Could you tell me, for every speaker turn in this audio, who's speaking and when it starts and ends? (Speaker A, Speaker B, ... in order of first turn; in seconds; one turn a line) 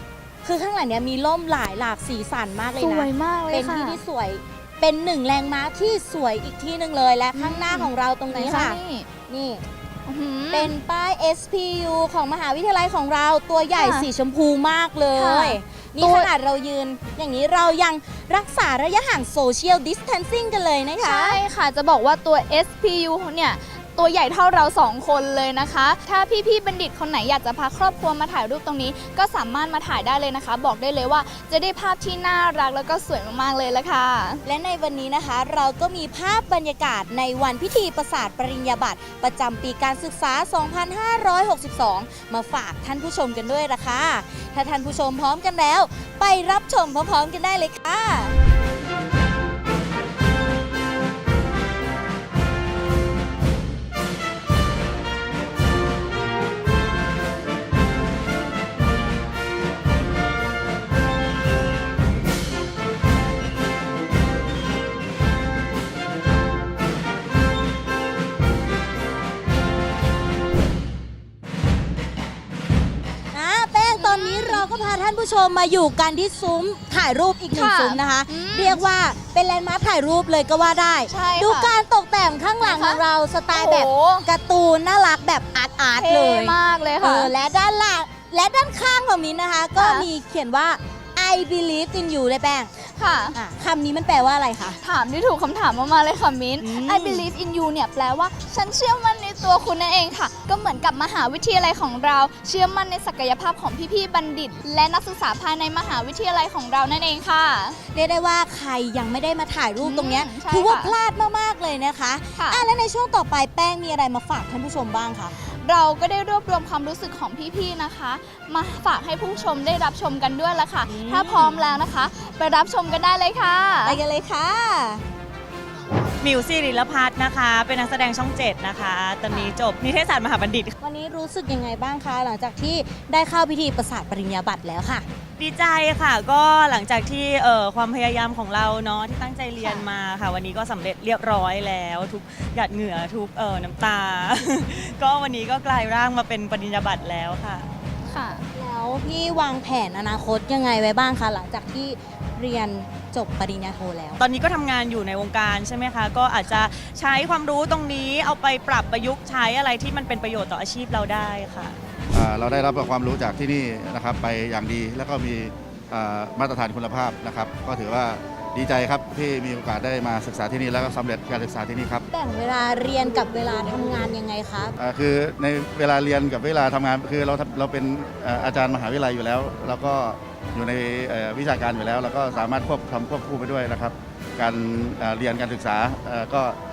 Speaker A: 0.4-9.6
Speaker B: 2.8-4.0
Speaker B: 7.3-9.1
Speaker B: 10.1-10.7
Speaker A: 10.5-21.4
Speaker B: 13.7-14.1
Speaker B: 15.1-16.3
Speaker B: 21.0-34.4
Speaker A: 34.4-48.3
Speaker A: 73.3-92.7
Speaker B: 74.0-74.6
Speaker B: 77.5-78.8
Speaker B: 81.1-81.7
Speaker B: 82.6-83.0
Speaker B: 83.5-84.3
Speaker B: 86.0-87.3
Speaker B: 89.8-90.1
Speaker B: 92.8-93.3
Speaker A: 93.3-94.8
Speaker B: 94.8-107.8
Speaker A: 96.6-97.3
Speaker A: 107.9-115.3
Speaker B: 109.8-110.9
Speaker B: 112.4-112.7
Speaker B: 115.4-124.0
Speaker A: 120.9-121.8
Speaker A: 123.8-125.0
Speaker C: 126.2-130.7
Speaker A: 130.8-135.1
Speaker C: 135.4-147.7
Speaker B: 148.1-148.4
Speaker A: 148.5-154.2
Speaker C: 154.2-161.7
Speaker D: 162.1-172.0
Speaker A: 172.1-174.8
Speaker D: 174.8-186.6